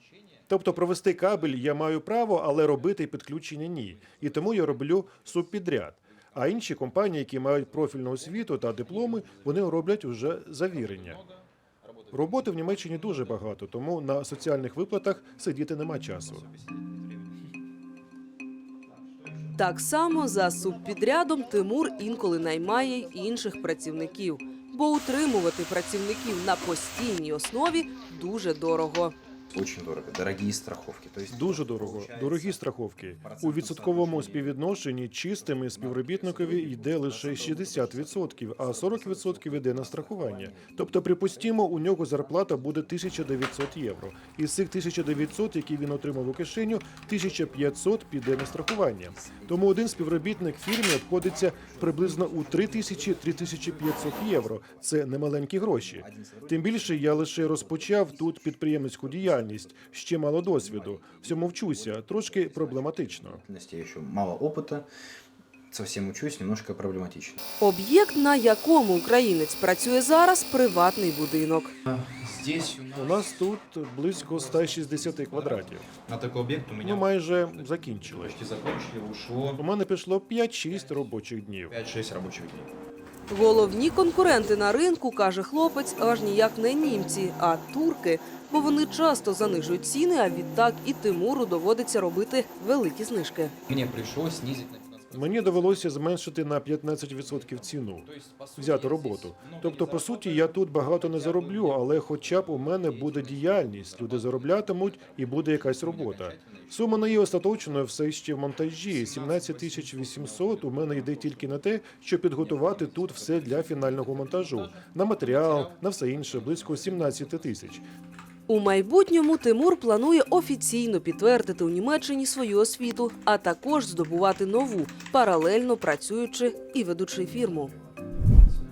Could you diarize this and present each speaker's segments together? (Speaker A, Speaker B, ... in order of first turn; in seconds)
Speaker A: 0.5-11.2, 12.1-16.4, 31.3-63.4, 72.9-75.9, 76.8-78.4, 79.5-81.8, 95.1-117.8
Speaker B: 19.6-29.1, 67.6-71.7, 83.3-93.5, 118.5-127.7
Speaker C: 29.5-34.6, 35.3-43.7, 46.9-47.8, 49.0-50.5, 51.1-64.9, 65.7-67.4
Speaker D: 71.9-73.3, 74.1-79.6, 80.7-81.0, 81.7-82.7, 93.7-95.9, 97.2-107.8, 108.9-111.5, 112.4-114.5, 115.3-115.7, 116.3-117.2